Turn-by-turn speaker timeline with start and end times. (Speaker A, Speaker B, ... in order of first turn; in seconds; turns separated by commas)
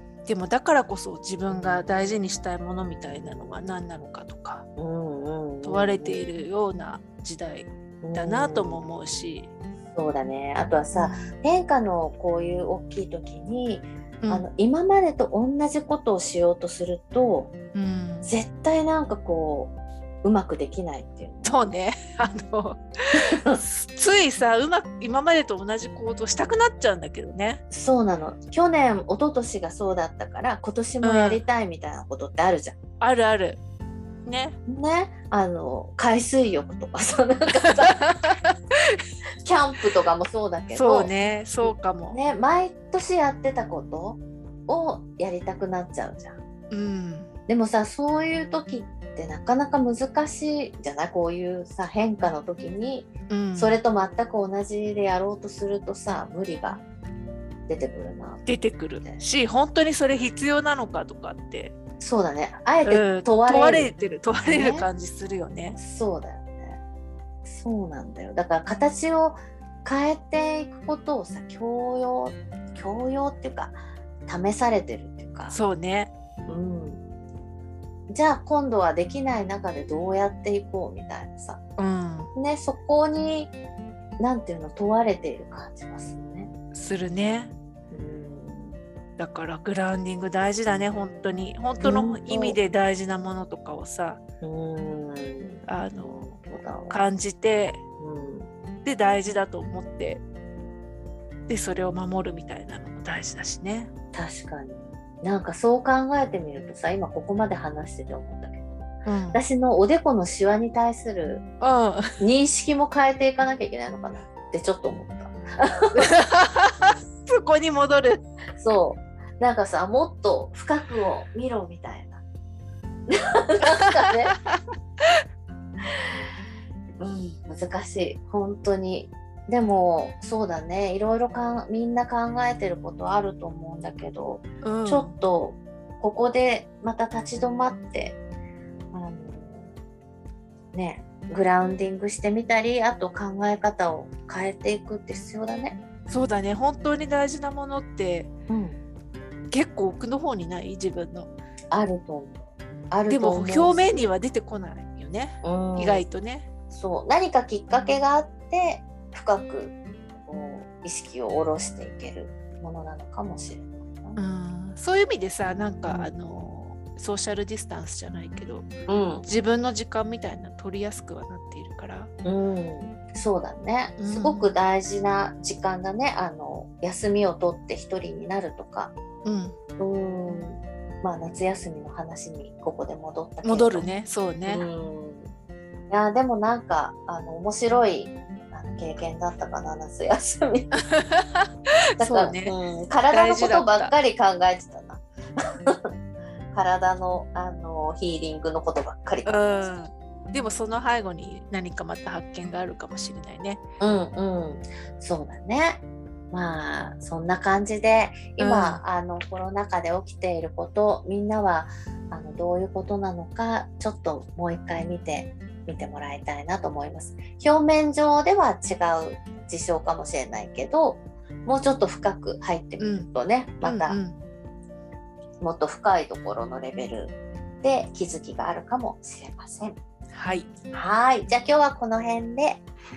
Speaker A: 0.3-4.7, Speaker B: 1.5-1.8, Speaker B: 4.8-6.2, Speaker A: 5.6-9.5, Speaker B: 8.0-8.8, Speaker B: 9.9-17.5, Speaker A: 10.9-11.3, Speaker A: 17.7-18.3, Speaker B: 18.2-21.7, Speaker A: 21.4-27.6, Speaker B: 23.2-23.6, Speaker B: 27.7-32.8, Speaker A: 31.0-31.4, Speaker A: 33.0-33.6, Speaker A: 34.3-34.6, Speaker B: 34.7-38.0, Speaker A: 37.8-39.0, Speaker B: 39.5-41.1, Speaker A: 40.7-42.2, Speaker B: 41.6-46.4, Speaker A: 46.7-47.3, Speaker B: 47.5-56.8, Speaker A: 53.3-53.8, Speaker B: 57.7-58.5, Speaker A: 58.5-61.7, Speaker B: 62.0-64.9, Speaker A: 62.9-65.8, Speaker B: 65.8-66.8, Speaker B: 67.5-75.6, Speaker A: 75.5-76.1, Speaker B: 76.5-77.0, Speaker B: 78.1-81.6, Speaker A: 81.8-82.3, Speaker B: 82.4-83.5, Speaker B: 84.2-86.5, Speaker A: 86.7-87.5, Speaker B: 87.9-88.8, Speaker A: 89.2-94.2, Speaker B: 91.8-92.6, Speaker B: 94.4-97.0, Speaker A: 95.7-96.3, Speaker A: 96.9-97.8, Speaker B: 98.0-98.5, Speaker A: 98.8-100.2, Speaker A: 101.5-103.9, Speaker B: 104.1-111.4, Speaker A: 109.0-109.4, Speaker A: 111.6-112.1, Speaker B: 112.2-116.1, Speaker A: 116.0-118.2, Speaker B: 118.6-122.2, Speaker B: 123.1-124.3, Speaker A: 124.3-124.5, Speaker B: 127.0-138.2, Speaker A: 134.6-135.1, Speaker B: 138.9-139.7, Speaker B: 140.7-145.8, Speaker A: 146.1-148.3, Speaker B: 148.5-148.8, Speaker A: 149.5-151.3, Speaker B: 151.7-154.0, Speaker A: 153.1-156.5, Speaker B: 155.4-156.1, Speaker B: 156.7-164.2, Speaker A: 164.2-168.7, Speaker B: 165.9-166.1, Speaker B: 168.9-169.2, Speaker A: 169.2-172.1, Speaker B: 172.2-178.9, Speaker A: 174.0-174.5, Speaker A: 179.2-179.6, Speaker B: 179.8-183.9, Speaker A: 183.4-184.7, Speaker B: 184.5-185.3, Speaker B: 185.9-190.8, Speaker A: 190.9-192.5, Speaker B: 192.0-195.9, Speaker A: 193.1-193.9, Speaker B: 196.5-199.4, Speaker A: 199.2-203.6, Speaker B: 203.8-205.8, Speaker B: 206.3-224.0, Speaker A: 208.4-208.8, Speaker A: 222.8-223.1, Speaker A: 223.6-224.2, Speaker B: 225.4-229.8, Speaker A: 230.1-230.5, Speaker B: 230.7-232.7